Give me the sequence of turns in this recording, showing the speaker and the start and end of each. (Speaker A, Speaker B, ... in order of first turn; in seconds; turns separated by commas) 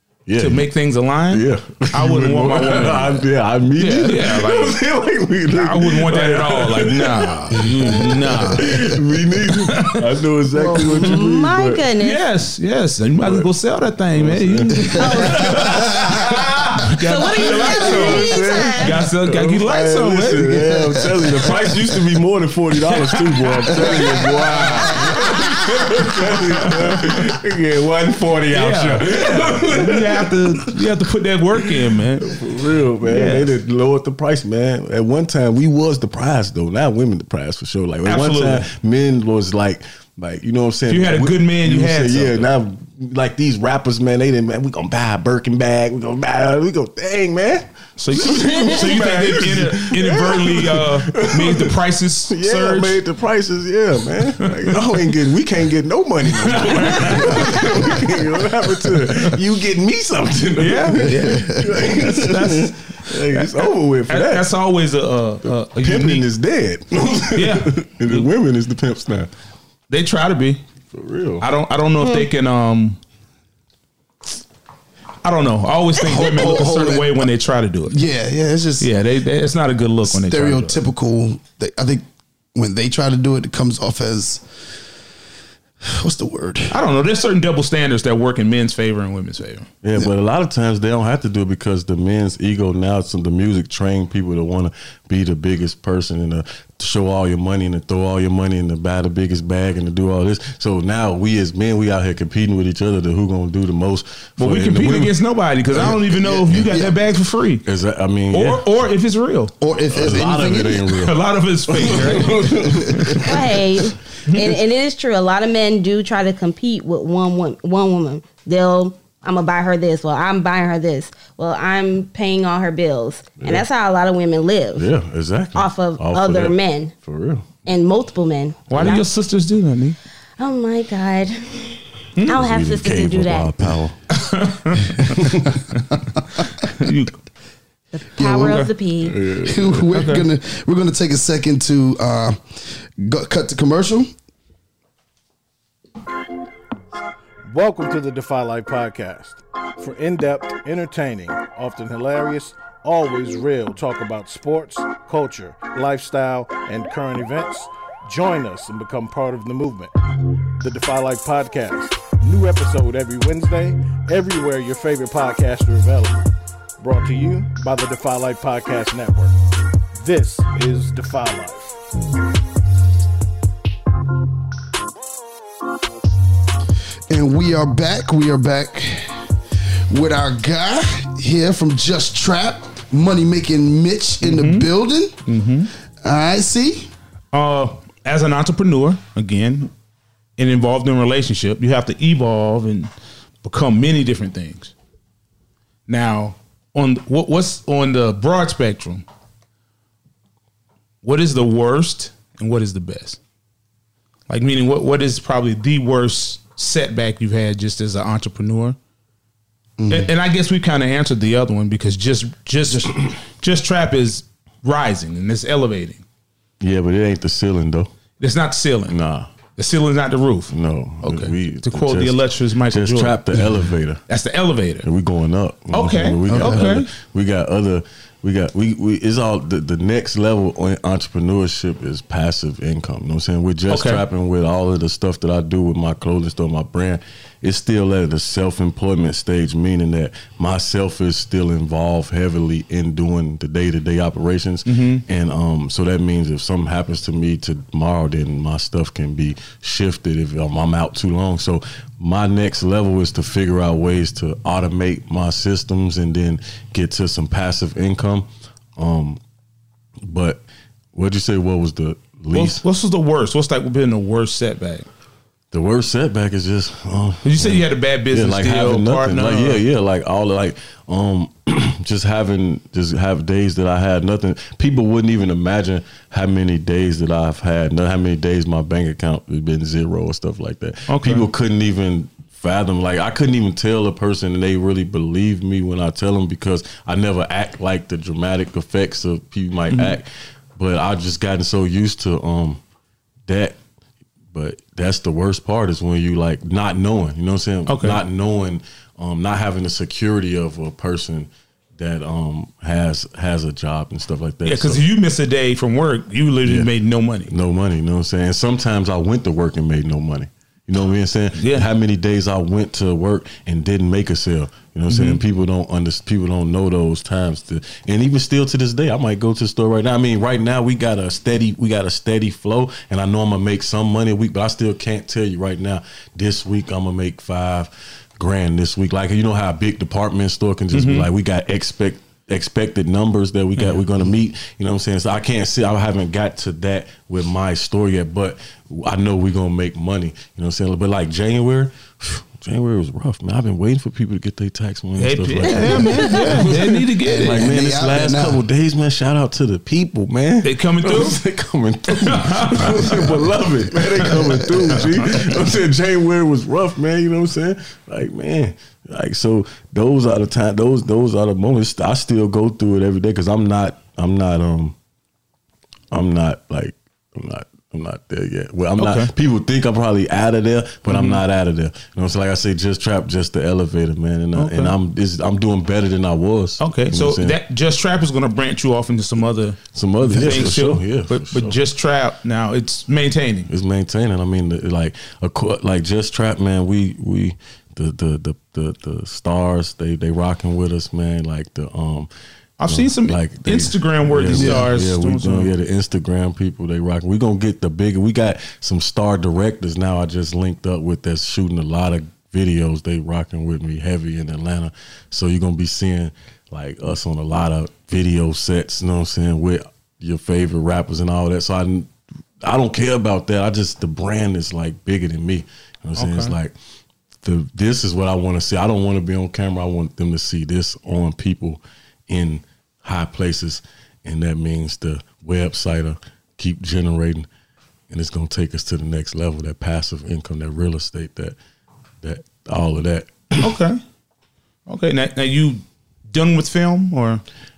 Speaker A: 0.2-0.7, Speaker B: 0.4-3.2, Speaker A: 1.3-11.8, Speaker B: 3.8-4.8, Speaker B: 5.5-8.8, Speaker C: 8.2-8.9, Speaker B: 9.6-10.0, Speaker D: 10.6-12.2, Speaker B: 12.0-20.7, Speaker A: 13.2-13.5, Speaker A: 14.1-16.3, Speaker D: 15.0-19.0, Speaker A: 17.2-30.5, Speaker B: 23.1-27.1, Speaker B: 28.5-32.4, Speaker A: 32.2-51.8, Speaker B: 33.0-33.5, Speaker B: 38.0-38.7, Speaker B: 40.9-42.5, Speaker B: 48.0-53.0, Speaker A: 52.3-64.5, Speaker B: 56.3-58.2, Speaker B: 58.8-59.3, Speaker B: 60.6-66.2, Speaker C: 61.1-61.6, Speaker A: 65.5-69.3, Speaker B: 67.3-68.3, Speaker B: 69.9-70.6, Speaker A: 70.9-71.5, Speaker B: 71.4-73.0, Speaker D: 72.0-72.3, Speaker B: 75.2-78.0, Speaker C: 75.9-77.3, Speaker C: 77.9-78.9, Speaker B: 78.8-80.8, Speaker C: 80.1-82.0, Speaker C: 82.5-84.8, Speaker C: 85.8-86.7, Speaker B: 86.7-89.7, Speaker A: 89.8-105.2, Speaker B: 104.4-107.6, Speaker A: 105.7-106.9, Speaker C: 105.8-106.9, Speaker A: 107.6-108.7, Speaker B: 108.3-109.5, Speaker C: 109.6-110.9, Speaker A: 109.9-113.4, Speaker B: 110.9-113.3, Speaker D: 113.2-124.9, Speaker B: 114.2-114.5, Speaker A: 123.4-123.6, Speaker A: 124.7-127.5, Speaker D: 125.5-126.9, Speaker D: 127.7-129.1, Speaker B: 128.7-130.0, Speaker D: 130.4-133.7, Speaker A: 132.3-134.0, Speaker B: 134.1-137.2, Speaker D: 137.9-139.2, Speaker C: 138.2-138.7, Speaker B: 138.3-138.7, Speaker A: 139.0-139.9, Speaker C: 139.4-144.1, Speaker B: 139.9-140.2, Speaker E: 147.5-159.9, Speaker E: 160.6-166.2, Speaker E: 166.8-169.4, Speaker E: 169.9-171.8, Speaker C: 177.1-179.3, Speaker C: 179.9-185.2, Speaker B: 184.2-184.7, Speaker B: 185.2-185.7, Speaker C: 186.0-186.9, Speaker B: 187.3-189.7, Speaker B: 190.4-192.9, Speaker B: 193.4-194.7, Speaker B: 195.9-199.1, Speaker B: 201.0-203.2, Speaker B: 204.3-208.8, Speaker C: 209.8-210.1, Speaker B: 209.9-216.0, Speaker A: 216.6-217.9, Speaker B: 218.2-218.9, Speaker A: 218.9-219.3, Speaker B: 219.6-223.2, Speaker A: 220.5-224.0, Speaker B: 224.1-224.8, Speaker A: 224.8-259.2, Speaker B: 225.7-226.9, Speaker C: 226.3-226.6, Speaker B: 233.7-234.0, Speaker B: 244.7-245.0, Speaker A: 260.0-262.6, Speaker B: 262.3-264.9, Speaker A: 265.5-292.6, Speaker B: 267.2-269.6, Speaker B: 280.9-281.2, Speaker B: 289.7-290.0, Speaker A: 293.2-293.6, Speaker A: 294.3-304.8, Speaker B: 297.7-298.0, Speaker B: 304.4-307.3, Speaker A: 306.4-306.7, Speaker A: 307.3-364.7, Speaker B: 311.4-311.7, Speaker B: 314.9-315.2, Speaker B: 330.7-331.1, Speaker B: 345.0-347.5, Speaker C: 345.6-348.4, Speaker B: 350.4-351.2, Speaker B: 352.0-352.8, Speaker C: 352.8-355.0, Speaker A: 365.9-377.4, Speaker B: 368.8-369.1, Speaker B: 370.9-371.2, Speaker B: 374.3-374.7, Speaker B: 376.6-383.5, Speaker A: 379.7-381.6, Speaker A: 383.5-392.1, Speaker B: 392.6-395.5, Speaker A: 392.7-411.9, Speaker C: 394.3-394.7, Speaker A: 412.4-416.5, Speaker B: 416.0-416.4, Speaker A: 417.2-427.3, Speaker A: 427.9-431.4, Speaker A: 432.0-433.6, Speaker B: 433.4-433.8, Speaker B: 434.7-437.2